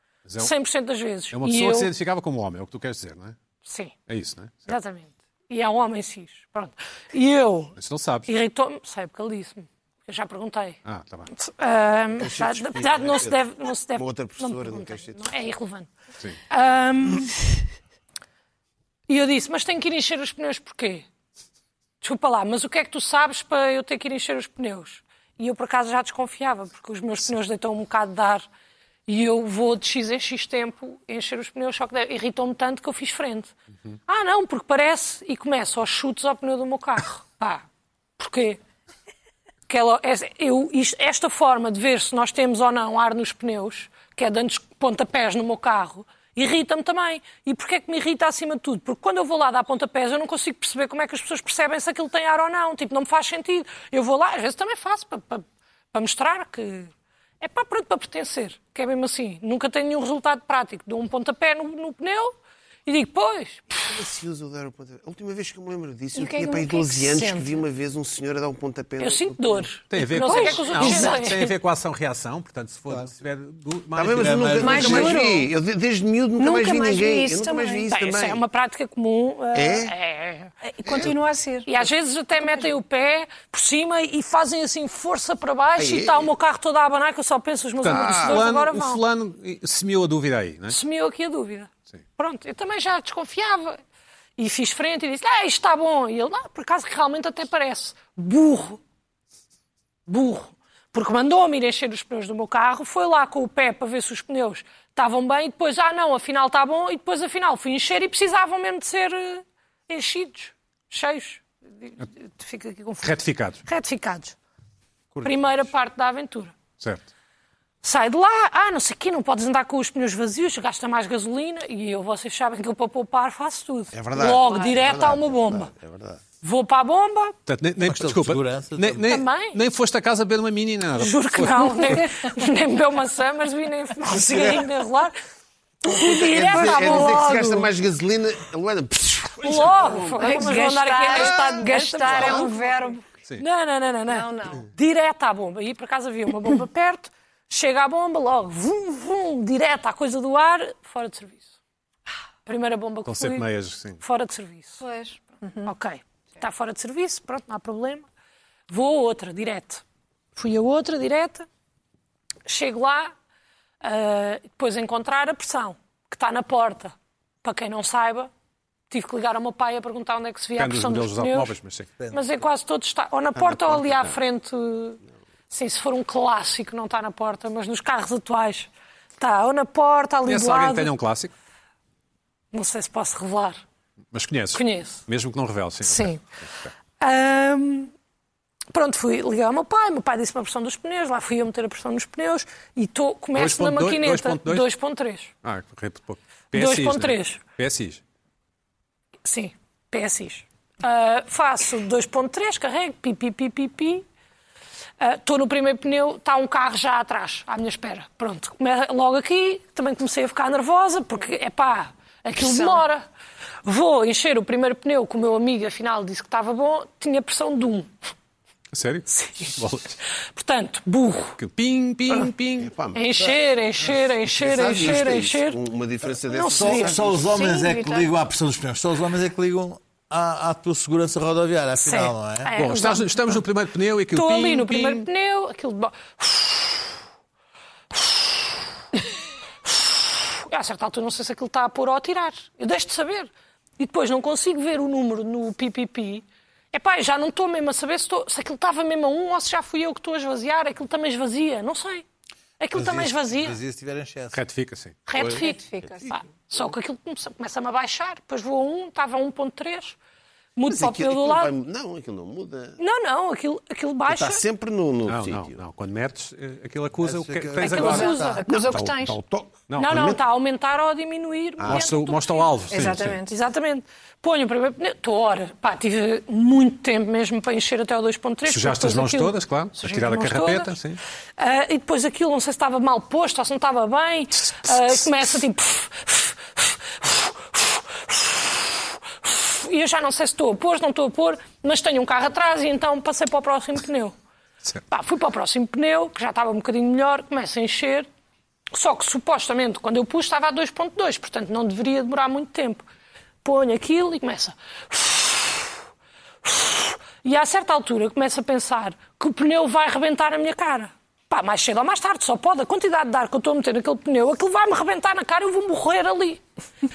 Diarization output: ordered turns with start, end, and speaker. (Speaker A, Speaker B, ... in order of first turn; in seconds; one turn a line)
Speaker A: 0.4-1.9
Speaker B: 1.3-3.4
Speaker A: 3.6-3.9
Speaker B: 4.1-4.8
Speaker A: 4.7-7.8
Speaker B: 7.8-8.3
Speaker A: 8.3-10.8
Speaker B: 10.9-11.3
Speaker A: 11.3-15.9
Speaker C: 12.2-13.4
Speaker C: 14.0-15.3
Speaker A: 16.5-17.6
Speaker A: 19.1-21.1
Speaker A: 22.0-28.5
Speaker A: 29.1-33.5
Speaker A: 34.1-37.6
Speaker A: 38.2-38.6
Speaker A: 39.7-62.4
Speaker A: 62.9-63.8
Speaker C: 63.8-69.7
Speaker D: 66.2-67.6
Speaker A: 69.0-71.5
Speaker B: 69.9-75.1
Speaker D: 70.2-71.2
Speaker C: 74.0-78.4
Speaker E: 74.2-75.1
Speaker D: 74.6-75.5
Speaker D: 76.4-77.9
Speaker A: 77.9-80.5
Speaker C: 79.5-79.9
Speaker D: 80.6-81.8
Speaker C: 80.9-81.1
Speaker A: 81.7-89.0
Speaker C: 85.8-86.3
Speaker B: 87.8-90.8
Speaker C: 87.8-88.4
Speaker A: 90.7-93.8
Speaker A: 94.4-98.8
Speaker A: 100.1-113.1
Speaker B: 113.0-113.6
Speaker A: 113.7-114.4
Speaker A: 115.2-116.5
Speaker B: 116.8-117.1
Speaker A: 117.8-125.7
Speaker C: 123.9-126.2
Speaker A: 126.4-127.4
Speaker B: 127.5-132.0
Speaker E: 127.8-129.1
Speaker A: 129.1-129.6
Speaker A: 131.0-135.2
Speaker D: 132.0-132.3
Speaker C: 134.1-134.6
Speaker A: 135.8-137.7
Speaker C: 135.9-140.5
Speaker A: 139.4-151.5
Speaker D: 140.2-143.0
Speaker C: 141.1-142.4
Speaker D: 144.1-144.7
Speaker A: 152.5-153.5
Speaker B: 153.1-154.0
Speaker A: 154.0-154.8
Speaker D: 154.8-155.7
Speaker A: 155.7-158.1
Speaker A: 158.7-159.8
Speaker A: 160.3-161.5
Speaker A: 162.4-163.1
Speaker A: 163.8-168.3
Speaker A: 168.9-171.6
Speaker B: 170.6-171.9
Speaker A: 172.1-180.9
Speaker C: 173.4-174.2
Speaker B: 180.3-181.3
Speaker A: 182.5-183.6
Speaker B: 184.1-186.7
Speaker A: 184.5-185.0
Speaker A: 185.8-186.2
Speaker A: 187.0-187.9
Speaker A: 188.7-195.3
Speaker B: 193.3-194.7
Speaker B: 195.4-198.0
Speaker A: 196.5-197.4
Speaker A: 199.2-204.1
Speaker A: 205.0-213.0
Speaker D: 212.4-212.8
Speaker A: 213.6-217.9
Speaker B: 218.7-220.0
Speaker A: 219.1-219.6
Speaker A: 220.3-221.4
Speaker B: 221.4-222.7
Speaker C: 222.6-223.3
Speaker A: 222.9-225.6
Speaker C: 224.3-227.3
Speaker A: 226.3-227.0
Speaker E: 226.5-232.5
Speaker D: 227.2-228.1
Speaker A: 231.8-233.4
Speaker B: 232.6-235.1
Speaker A: 234.1-236.9
Speaker A: 237.9-238.6
Speaker A: 239.7-252.1
Speaker A: 252.6-253.6
Speaker E: 252.7-254.4
Speaker B: 254.3-255.0
Speaker A: 255.1-260.0
Speaker D: 255.2-256.1
Speaker A: 260.6-261.5
Speaker C: 260.7-262.8
Speaker A: 262.8-264.4
Speaker C: 264.1-265.6
Speaker B: 265.1-268.2
Speaker E: 267.0-268.4
Speaker A: 267.6-268.5
Speaker D: 267.7-269.2
Speaker C: 268.5-270.2
Speaker B: 269.7-270.0
Speaker A: 269.8-272.5
Speaker C: 271.6-271.9
Speaker B: 271.7-273.2
Speaker D: 272.7-273.4
Speaker A: 273.3-280.8
Speaker B: 278.5-281.0
Speaker A: 281.4-294.1
Speaker A: 294.9-298.1
Speaker A: 298.7-302.8
Speaker A: 303.4-305.7
Speaker A: 306.4-316.4